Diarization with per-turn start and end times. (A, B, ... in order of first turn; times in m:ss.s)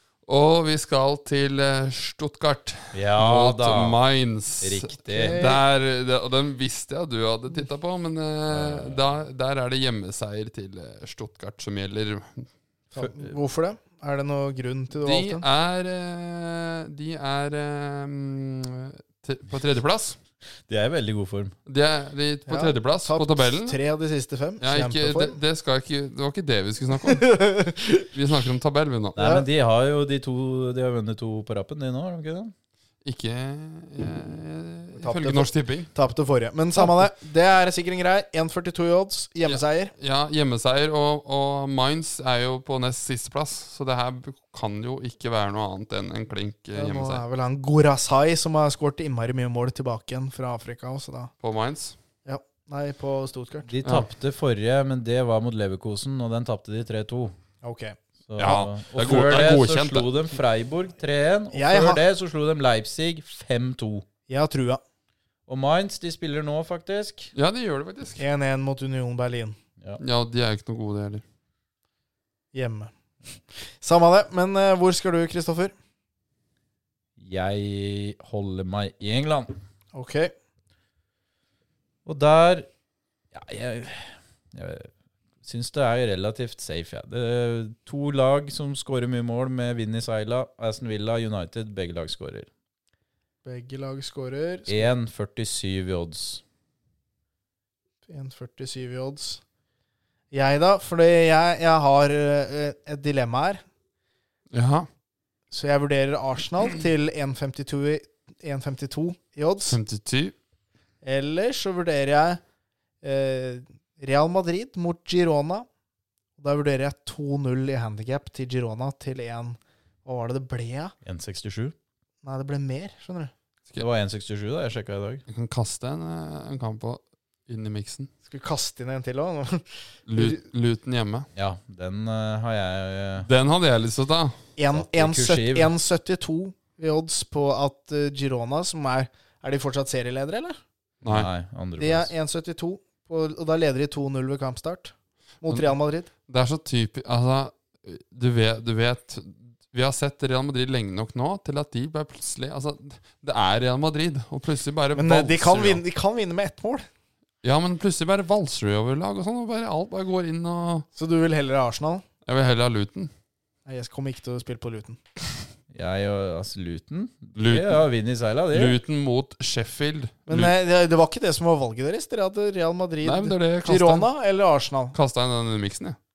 0:00.3-0:12.5 A
0:02.9-0:04.0 B
0:04.6-0:05.5 B
0:05.1-0:05.6 C
0:08.5-0:09.0 B
0:12.9-0:15.4 C
0:13.0-0:13.3 B
0:15.0-0:20.2 A
0:20.7-0:21.6 B
0:21.7-0:23.8 A
0:22.5-0:25.4 C
0:24.6-0:29.2 A
0:27.1-0:28.1 C
0:29.2-0:32.5 B
0:29.2-0:29.5 C
0:33.0-0:35.9 A
0:35.0-0:39.9 C
0:39.4-0:47.2 A
0:46.8-0:51.3 C
0:51.4-0:52.0 A
0:52.2-0:53.7 C
0:53.7-0:57.4 B
0:57.6-0:58.0 C
0:58.3-1:04.1 B
0:58.4-1:00.1 A
1:01.5-1:02.0 C
1:04.3-1:04.8 C
1:05.5-1:07.3 B
1:07.4-1:08.2 A
1:08.2-1:09.6 C
1:10.0-1:11.2 A
1:12.5-1:12.9 C
1:13.5-1:15.7 C
1:17.2-1:19.6 B
1:19.9-1:20.3 C
1:22.1-1:22.7 B
1:23.3-1:24.9 B
1:25.4-1:32.5 B
1:33.4-1:34.9 C
1:34.7-1:36.4 B
1:38.1-1:39.4 C
1:40.3-1:43.6 C
1:44.5-1:44.9 A
1:45.5-1:49.8 C
1:49.7-1:50.3 A
1:51.0-1:52.4 C
1:53.0-1:55.7 C
1:56.4-2:00.9 C
2:01.0-2:01.8 B
2:02.2-2:03.3 C
2:03.8-2:05.2 B
2:05.3-2:08.1 A
2:08.3-2:10.4 C
2:10.1-2:11.3 A
2:11.4-2:13.3 B
2:13.2-2:14.4 A
2:14.6-2:20.6 C
2:14.7-2:15.7 B
2:21.0-2:22.1 B
2:21.8-2:26.1 C
2:26.3-2:35.8 A
2:35.0-2:36.9 C
2:37.4-2:40.8 A
2:41.0-2:42.0 C
2:42.3-2:43.1 A
2:43.7-2:45.0 C
2:45.7-2:48.8 B
2:47.4-2:47.8 A
2:48.5-2:50.5 A
2:50.3-2:55.0 C
2:53.0-2:54.1 A
2:54.9-2:56.0 A